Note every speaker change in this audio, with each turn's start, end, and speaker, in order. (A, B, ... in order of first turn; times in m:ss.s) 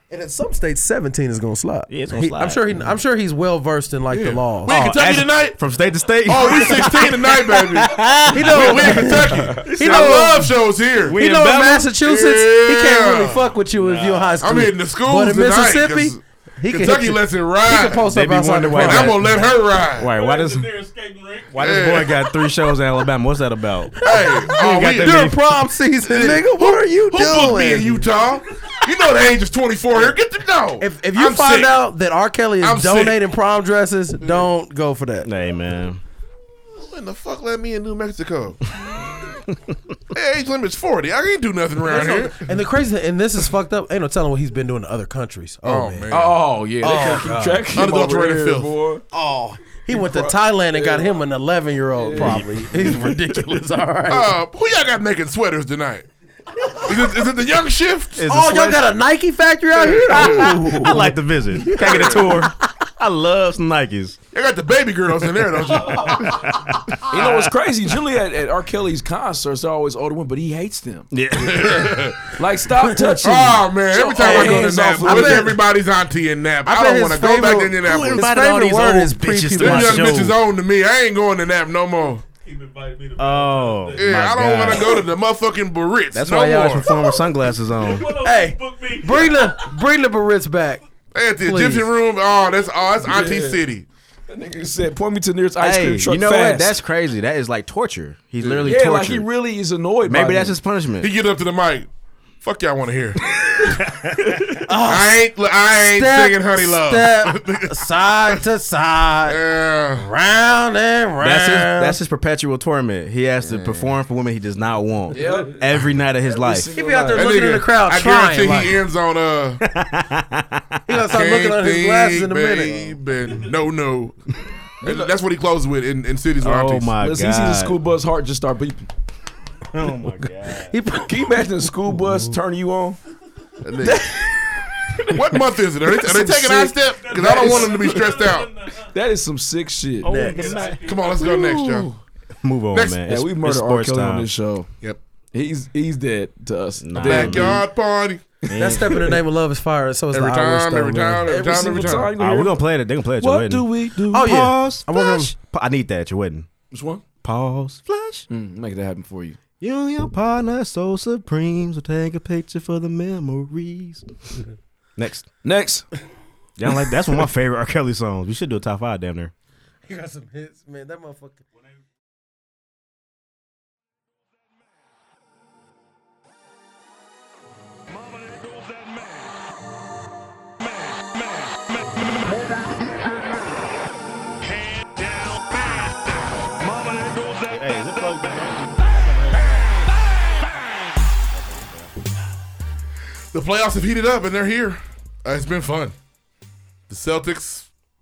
0:00.1-0:04.9 A
0:01.9-0:02.6 B
0:04.1-0:05.6 C
0:04.7-0:10.5 B
0:06.2-0:11.2 C
0:08.3-0:10.6 A
0:11.0-0:11.9 B
0:11.1-0:19.2 A
0:11.9-0:13.5 C
0:13.8-0:14.2 D
0:13.8-0:14.4 B
0:14.4-0:18.1 C
0:18.0-0:19.4 B
0:18.7-0:20.1 C
0:20.0-0:20.7 B
0:20.0-0:22.5 D
0:21.5-0:24.0 B
0:21.6-0:22.1 C
0:24.0-0:25.3 C
0:24.0-0:28.1 A
0:24.6-0:25.4 B
0:26.0-0:31.8 C
0:30.8-0:35.3 A
0:32.6-0:33.2 C
0:35.2-0:36.0 B
0:36.8-0:38.8 C
0:40.1-0:42.5 C
0:41.8-0:46.1 A
0:45.6-0:46.4 C
0:46.1-0:49.0 E
0:46.8-0:47.7 A
0:47.7-0:48.7 C
0:49.1-0:54.3 A
0:49.9-0:51.2 E
0:52.0-0:52.5 E
0:52.2-0:53.1 B
0:54.1-0:56.1 C
0:56.6-0:56.9 A
0:56.8-0:58.3 C
0:58.2-0:58.9 B
0:58.2-1:02.5 A
0:59.8-1:00.5 C
1:00.1-1:04.2 B
1:00.5-1:01.0 E
1:01.8-1:02.4 C
1:04.3-1:06.5 C
1:05.9-1:07.3 B
1:07.1-1:11.1 E
1:07.1-1:07.5 C
1:11.1-1:12.1 B
1:11.4-1:12.4 C
1:12.3-1:15.6 E
1:12.8-1:13.2 A
1:13.2-1:18.3 C
1:13.9-1:15.6 A
1:16.6-1:20.2 A
1:17.8-1:20.4 B
1:19.6-1:22.2 C
1:22.4-1:24.4 D
1:23.2-1:25.0 B
1:24.0-1:26.9 C
1:26.1-1:28.2 B
1:26.9-1:29.8 D
1:28.2-1:30.8 A
1:31.1-1:33.9 C
1:31.4-1:31.9 A
1:33.0-1:33.6 E
1:34.3-1:36.7 E
1:35.6-1:39.3 B
1:38.4-1:40.6 E
1:40.0-1:41.1 B
1:41.0-1:41.9 C
1:42.4-1:43.8 C
1:43.6-1:44.4 B
1:44.6-1:45.2 A
1:44.8-1:47.8 C
1:45.9-1:49.4 A
1:49.3-1:50.1 C
1:49.9-1:52.0 A
1:51.2-1:56.7 B
1:53.4-1:53.9 E
1:55.1-1:57.5 E
1:56.7-1:58.8 A
1:57.2-1:59.7 C
1:59.6-2:00.8 B
2:00.9-2:03.0 A
2:01.1-2:04.3 C
2:04.8-2:05.1 E
2:04.8-2:06.9 C
2:06.4-2:07.8 B
2:07.0-2:08.9 E
2:09.7-2:10.7 B
2:10.5-2:11.4 A
2:11.1-2:13.0 E
2:13.6-2:14.1 C
2:13.8-2:17.8 E
2:15.1-2:18.5 C
2:16.9-2:19.0 D
2:18.9-2:20.1 E
2:20.0-2:24.3 B
2:20.0-2:21.2 D
2:20.1-2:20.5 A
2:20.8-2:21.9 C
2:22.7-2:23.1 C
2:23.1-2:24.7 E
2:25.3-2:27.6 E
2:26.8-2:27.6 B
2:27.0-2:28.2 C
2:28.5-2:28.9 B
2:28.5-2:29.2 E
2:28.6-2:32.0 A
2:30.1-2:32.2 C
2:31.3-2:32.6 E
2:32.2-2:36.5 B
2:33.2-2:34.4 E
2:34.1-2:35.3 A
2:36.7-2:37.0 E
2:37.2-2:38.3 B
2:38.3-2:39.4 E
2:39.6-2:44.4 B
2:45.0-2:45.3 B
2:45.4-2:45.9 E
2:46.6-2:49.3 B
2:49.9-2:51.4 A
3:07.5-3:09.5 B
3:11.4-3:11.8 B
3:13.3-3:15.9 C
3:16.9-3:17.7 C